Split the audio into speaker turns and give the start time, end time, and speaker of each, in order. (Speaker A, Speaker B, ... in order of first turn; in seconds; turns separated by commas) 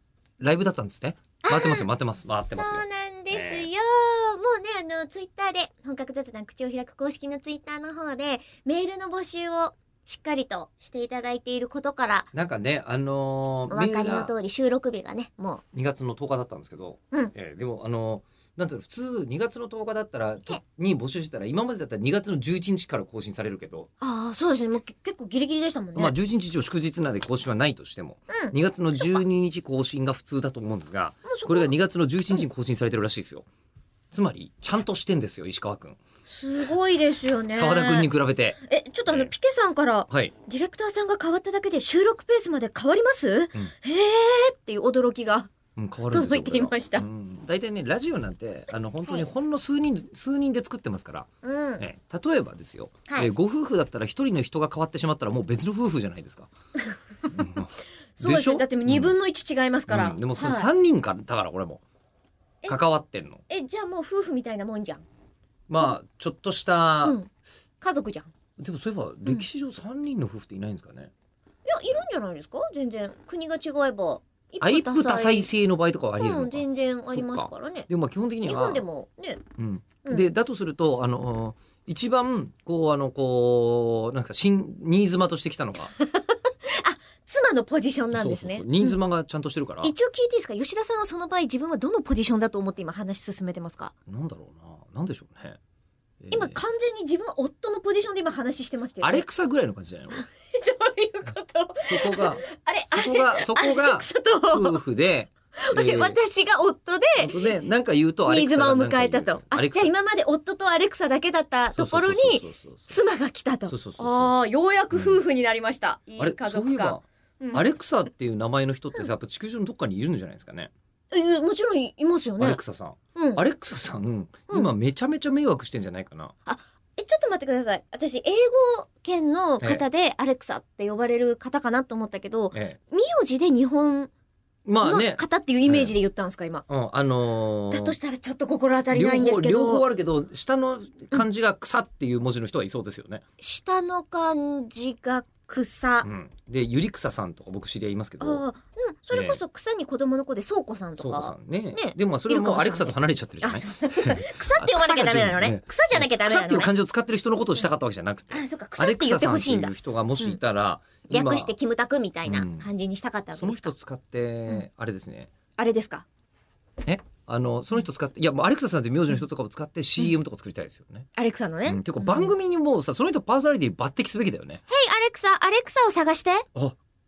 Speaker A: 0.4-3.7, Speaker B: 1.4-1.9, Speaker B: 2.5-12.3, Speaker A: 12.3-14.3, Speaker B: 13.7-15.6, Speaker A: 15.7-23.9, Speaker B: 24.0-26.1, Speaker A: 25.9-33.5, Speaker B: 28.3-29.2, Speaker B: 31.2-31.7, Speaker A: 34.1-36.0, Speaker B: 36.3-38.1, Speaker A: 37.5-39.3, Speaker B: 38.7-45.5, Speaker A: 45.8-51.3, Speaker B: 46.1-47.0, Speaker B: 51.4-51.8, Speaker A: 51.8-56.5, Speaker A: 57.3-59.1, Speaker B: 58.1-60.7, Speaker A: 59.9-61.8, Speaker A: 62.7-63.4, Speaker B: 63.5-65.0, Speaker A: 65.7-67.2, Speaker B: 67.0-67.3, Speaker B: 67.8-68.3, Speaker A: 68.6-71.1, Speaker B: 71.6-75.5, Speaker A: 74.6-78.8, Speaker B: 76.2-77.9, Speaker B: 78.4-79.4, Speaker A: 79.6-85.9, Speaker B: 80.0-80.3, Speaker B: 85.9-89.0, Speaker A: 88.1-89.9, Speaker B: 89.8-93.9, Speaker A: 94.1-95.6, Speaker A: 96.2-96.6, Speaker B: 96.3-99.2, Speaker A: 99.0-100.2, Speaker B: 100.1-104.8, Speaker A: 101.8-106.2, Speaker B: 105.6-107.5, Speaker A: 107.2-109.9, Speaker B: 108.2-117.6, Speaker A: 111.7-113.0, Speaker A: 113.7-114.3, Speaker A: 114.9-115.2, Speaker A: 116.2-120.7, Speaker B: 121.1-122.6, Speaker A: 122.4-126.3, Speaker B: 123.1-123.4, Speaker B: 126.4-134.1, Speaker A: 132.5-132.8, Speaker A: 134.7-135.9, Speaker B: 134.8-136.6, Speaker A: 136.7-137.9, Speaker B: 137.7-139.8, Speaker A: 138.9-143.2, Speaker B: 143.4-146.1, Speaker A: 146.0-148.4, Speaker B: 148.2-156.7, Speaker A: 149.1-149.4, Speaker A: 151.0-161.5, Speaker B: 158.3-160.4, Speaker B: 161.1-163.7, Speaker A: 162.2-162.7, Speaker A: 163.3-165.3, Speaker B: 165.6-166.1, Speaker A: 166.8-171.1, Speaker B: 171.2-172.3, Speaker A: 171.7-174.6, Speaker B: 174.7-176.4